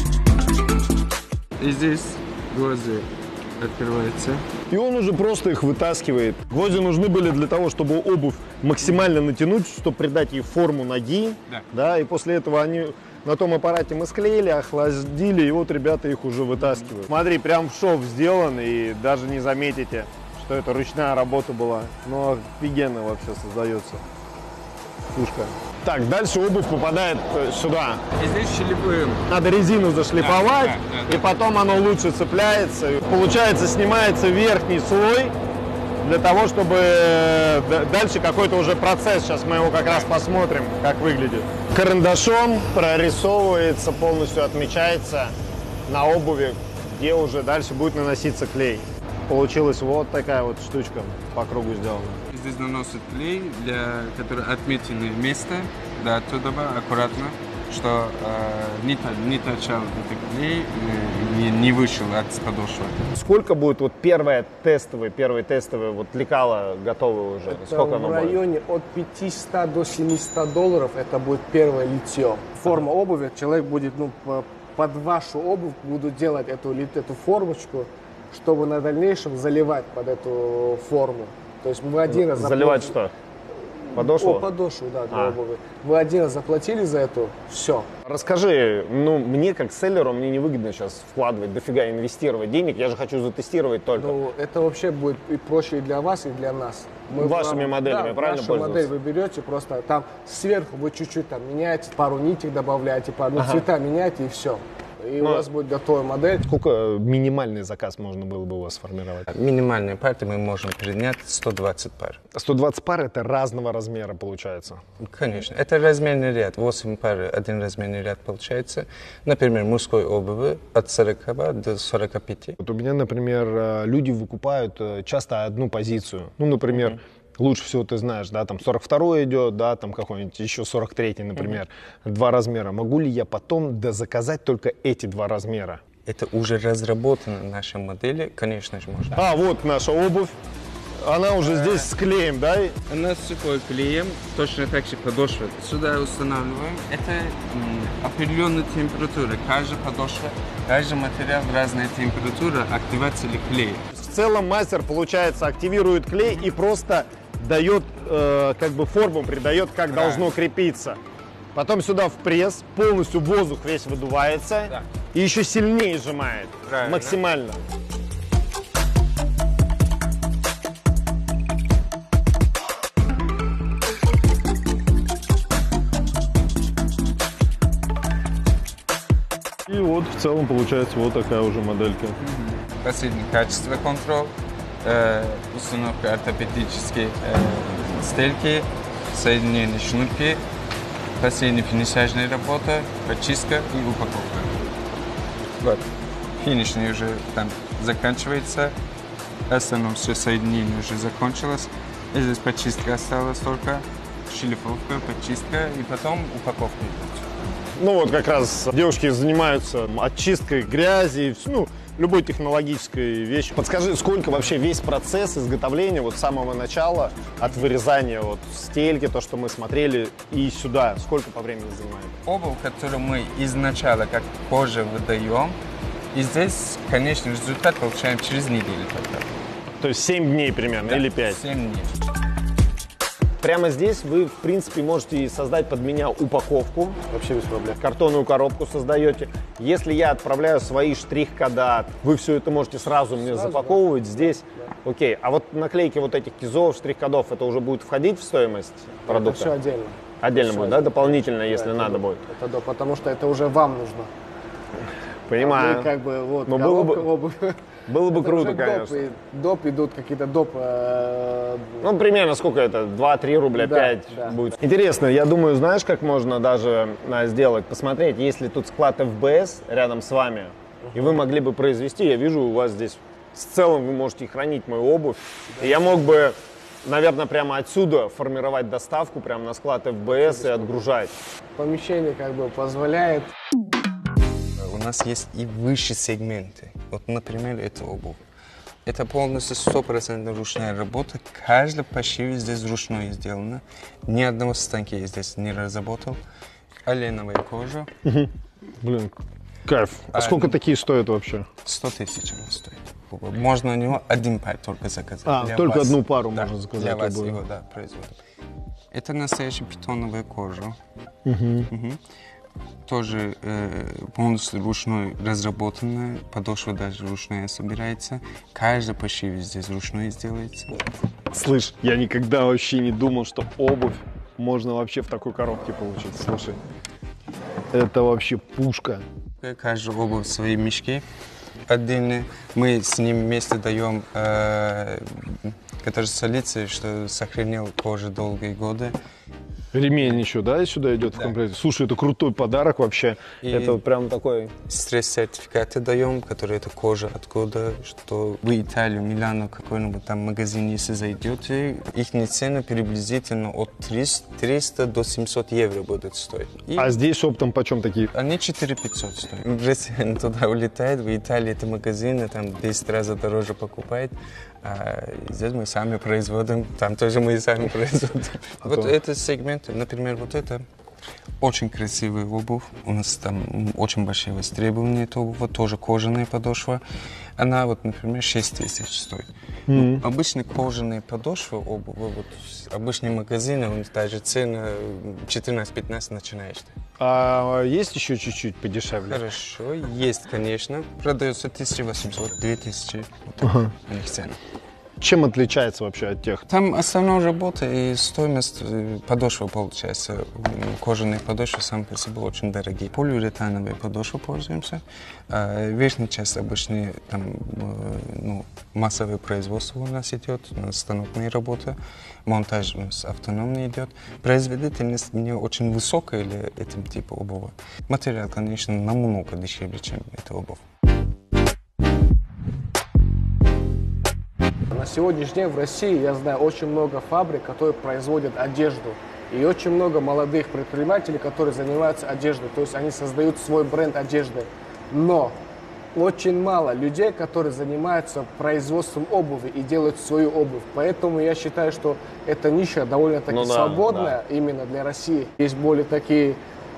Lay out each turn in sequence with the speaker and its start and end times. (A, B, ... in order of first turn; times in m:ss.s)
0:01.6-0:04.5 A
0:04.7-0:24.0 B
0:25.2-0:28.0 B
0:28.2-0:29.3 A
0:29.3-0:35.4 B
0:30.2-0:31.3 A
0:36.0-0:45.4 B
0:45.9-0:52.2 B
0:52.3-1:03.0 A
1:03.1-1:08.4 B
1:07.5-1:23.0 C
1:22.1-1:23.1 B
1:23.9-1:27.9 C
1:24.0-1:24.5 B
1:25.1-1:25.4 B
1:28.1-1:34.2 B
1:34.0-1:46.5 C
1:37.1-1:38.9 B
1:43.4-1:43.6 B
1:45.2-1:45.5 B
1:46.5-1:49.3 B
1:49.3-1:52.2 A
1:52.3-1:54.8 B
1:55.0-2:02.6 A
2:02.6-2:15.8 B
2:16.1-2:19.3 A
2:19.2-2:20.4 B
2:21.0-2:22.8 B
2:21.4-2:21.9 A
2:22.9-2:33.8 A
2:33.9-2:41.0 B
2:39.9-2:40.3 A
2:41.6-2:47.6 B
2:46.7-2:47.2 A
2:59.7-3:02.2 B
3:02.2-3:10.4 A
3:11.2-3:14.6 A
3:15.6-3:15.9 A
3:16.4-3:18.8 A
3:19.5-3:27.3 A
3:27.8-3:42.2 B
3:42.2-3:45.6 A
3:46.1-3:49.3 A
3:49.8-3:51.4 B
3:50.8-3:51.9 A
3:53.4-3:57.0 B
3:57.1-3:57.8 C
3:57.8-4:09.5 B
4:03.2-4:04.7 C
4:09.1-4:14.1 C
4:10.2-4:12.2 B
4:15.3-4:15.9 B
4:15.4-4:21.8 C
4:16.5-4:17.1 B
4:17.9-4:19.0 B
4:21.8-4:41.1 B
4:23.6-4:24.4 C
4:30.8-4:31.1 C
4:35.6-4:36.0 C
4:40.1-4:40.8 C
4:41.6-4:43.3 C
4:44.6-4:48.2 A
4:48.8-4:56.2 A
4:56.9-4:57.9 A
4:58.0-5:01.5 B
5:00.1-5:00.6 A
5:01.6-5:08.2 A
5:05.2-5:07.4 B
5:08.9-5:10.8 A
5:11.2-5:11.7 B
5:11.7-5:12.0 A
5:12.8-5:20.8 A
5:21.3-5:26.6 B
5:27.7-5:29.0 B
5:29.4-5:31.0 A
5:31.7-5:39.0 A
5:39.7-5:44.5 B
5:43.4-5:43.8 A
5:44.7-5:57.0 A
5:56.8-5:58.1 B
5:58.1-6:10.7 A
6:08.6-6:08.9 B
6:11.4-6:16.8 A
6:17.4-6:26.7 A
6:19.7-6:20.0 B
6:27.0-6:29.2 B
6:29.1-6:34.4 A
6:33.4-6:33.7 B
6:35.0-6:36.4 B
6:36.5-7:00.6 A
7:04.7-7:15.4 C
7:16.0-7:26.4 C
7:23.3-7:24.2 B